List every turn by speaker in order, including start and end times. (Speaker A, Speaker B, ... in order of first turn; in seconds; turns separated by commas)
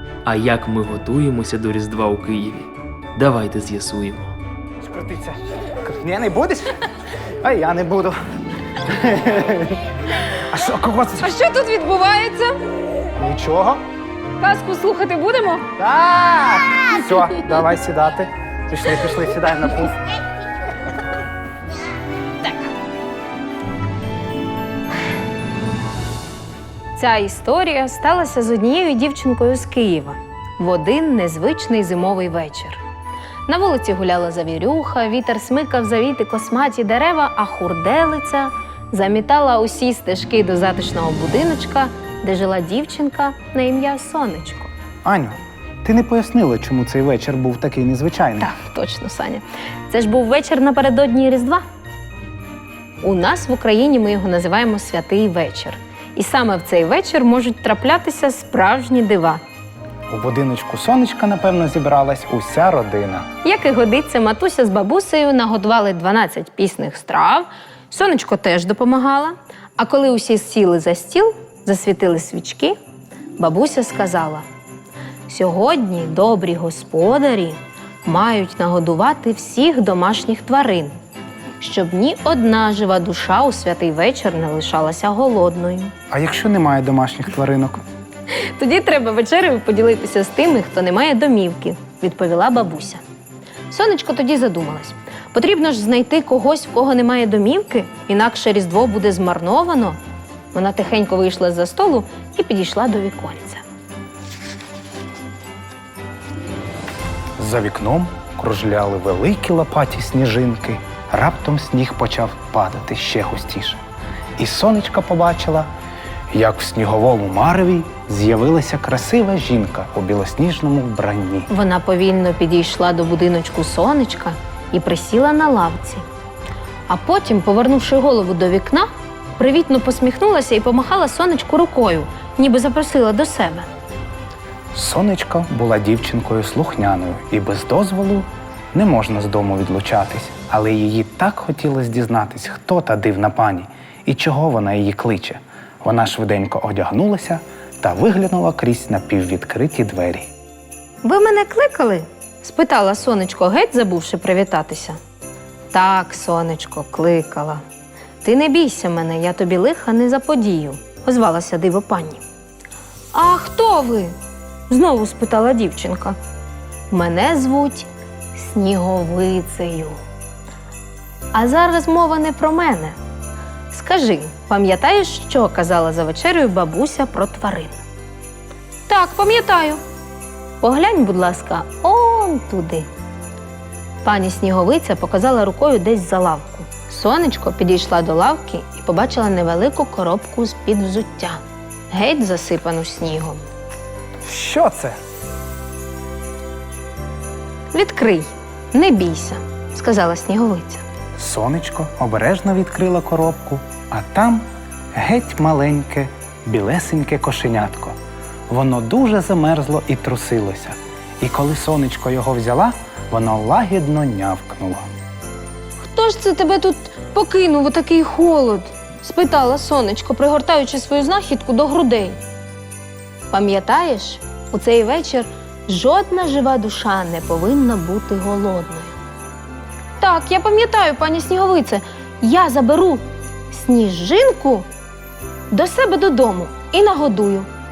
Speaker A: 0.2-4.3, Speaker B: 4.8-6.9, Speaker B: 7.4-8.2, Speaker B: 8.7-11.3, Speaker C: 11.2-12.6, Speaker B: 13.2-13.8, Speaker C: 14.4-15.7, Speaker B: 15.8-20.1, Speaker C: 22.4-22.7, Speaker C: 26.9-32.8, Speaker C: 33.5-44.7, Speaker B: 45.0-48.5, Speaker C: 48.4-51.6, Speaker C: 53.0-59.4, Speaker B: 60.1-63.3, Speaker C: 63.4-72.8, Speaker C: 73.4-74.4, Speaker C: 75.3-80.9, Speaker C: 81.6-85.9, Speaker B: 86.1-87.8, Speaker C: 88.3-93.0, Speaker C: 93.7-100.0, Speaker C: 100.5-103.6, Speaker B: 107.4-113.8, Speaker B: 114.4-115.7, Speaker B: 116.3-121.5, Speaker C: 121.5-126.0, Speaker C: 126.9-133.7, Speaker B: 134.7-150.3, Speaker C: 151.0-155.0, Speaker C: 155.7-157.6, Speaker C: 158.2-162.2, Speaker C: 163.1-164.1, Speaker C: 164.7-166.2, Speaker C: 166.9-170.0, Speaker C: 171.3-173.0, Speaker C: 173.7-177.8, Speaker C: 178.9-179.8, Speaker C: 180.6-182.9, Speaker C: 184.0-193.4, Speaker B: 194.2-195.0, Speaker C: 197.7-200.8, Speaker B: 201.2-207.9, Speaker B: 208.5-214.9, Speaker C: 215.8-222.2, Speaker C: 223.3-229.0, Speaker C: 230.0-234.7, Speaker C: 235.5-237.5